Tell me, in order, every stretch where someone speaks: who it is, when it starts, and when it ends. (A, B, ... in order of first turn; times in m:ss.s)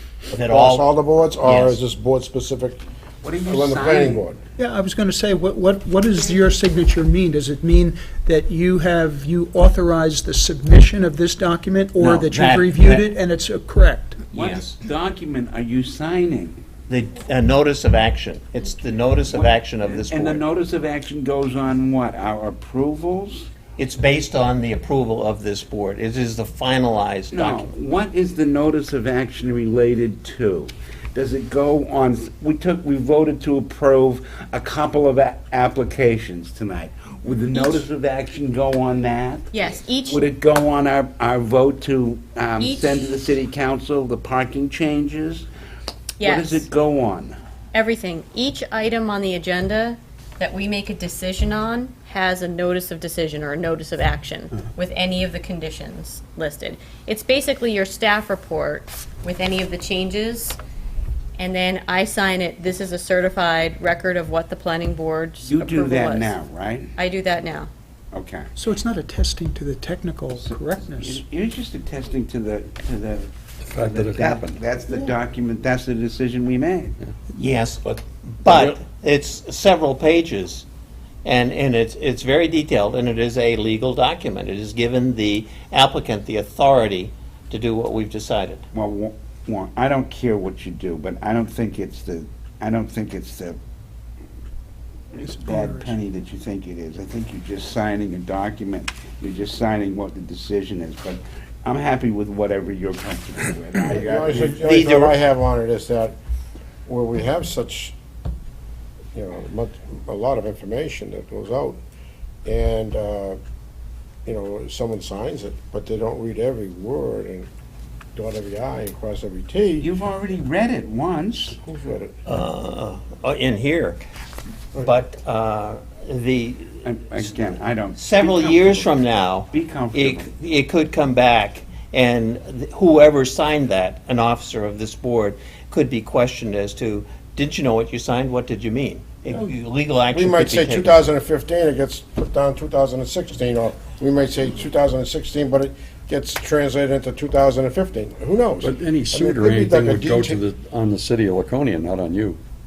0:00.3-0:02.8 A
0:00.3-0:00.9 B
0:01.4-0:01.8 B
0:03.2-0:04.2 C
0:03.4-0:04.4 A
0:04.6-0:14.2 D
0:12.0-0:13.0 B
0:14.3-0:16.6 C
0:14.4-0:14.8 B
0:16.9-0:20.4 B
0:19.3-0:23.5 C
0:23.8-0:27.7 B
0:27.3-0:45.5 C
0:37.5-0:37.8 E
0:39.5-0:40.3 E
0:42.6-0:43.0 E
0:46.2-0:46.7 E
0:46.2-0:47.4 C
0:47.7-1:00.6 E
1:01.4-1:06.4 E
1:05.4-1:06.9 C
1:07.0-1:07.7 E
1:08.1-1:08.5 C
1:08.6-1:11.2 D
1:10.4-1:17.0 C
1:13.7-1:14.6 F
1:17.3-1:17.8 B
1:18.4-1:20.6 B
1:21.2-1:28.6 B
1:28.7-1:33.6 C
1:35.2-1:36.0 D
1:35.2-1:44.6 C
1:43.8-1:46.2 A
1:44.6-1:45.2 B
1:46.9-1:47.9 A
1:49.1-1:51.8 A
1:52.4-1:53.4 A
1:54.2-1:57.5 A
1:58.2-1:59.9 A
1:59.8-2:01.6 C
2:01.5-2:02.2 A
2:02.3-2:04.0 B
2:04.8-2:06.8 B
2:06.8-2:09.0 C
2:08.0-2:21.1 B
2:09.5-2:10.3 C
2:20.1-2:30.4 A
2:28.6-2:32.4 F